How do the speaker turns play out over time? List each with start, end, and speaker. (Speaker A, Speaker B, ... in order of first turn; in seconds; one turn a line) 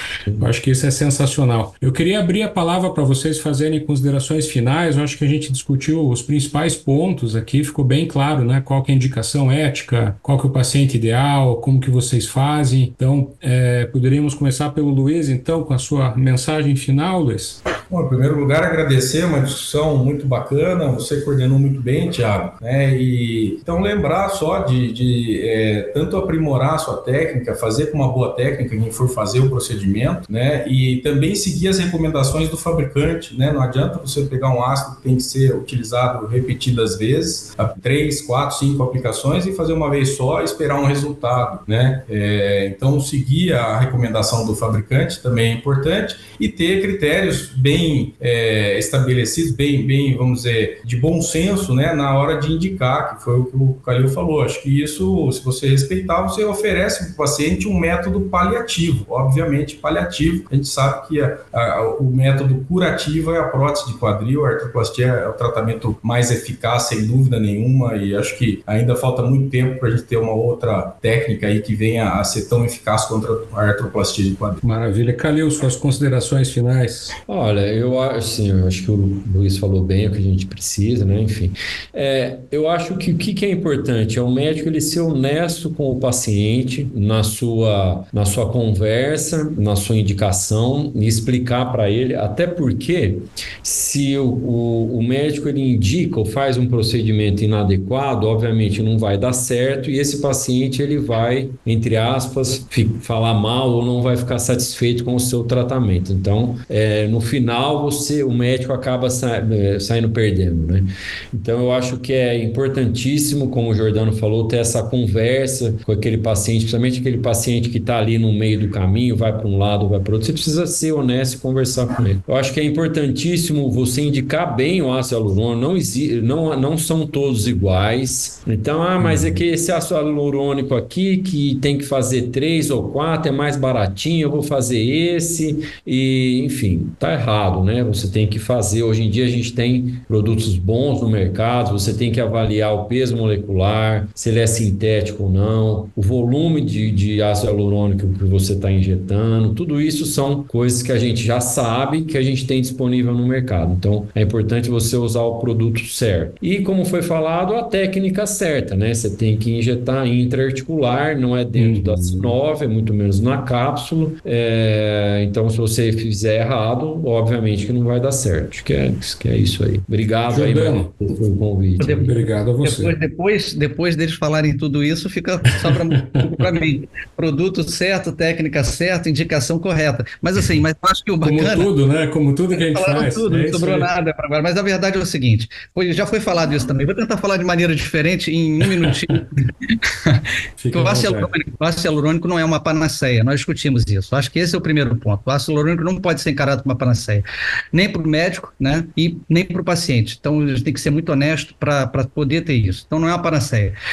Speaker A: 0.4-17.6
Speaker B: 17.9-74.6
Speaker A: 74.6-77.1
Speaker C: 77.3-172.2
Speaker A: 129.0-129.4
Speaker A: 161.6-162.4
Speaker A: 170.3-170.9
Speaker D: 171.8-181.7
Speaker A: 172.0-172.9
Speaker A: 181.2-183.9
Speaker D: 182.5-203.8
Speaker A: 190.6-191.3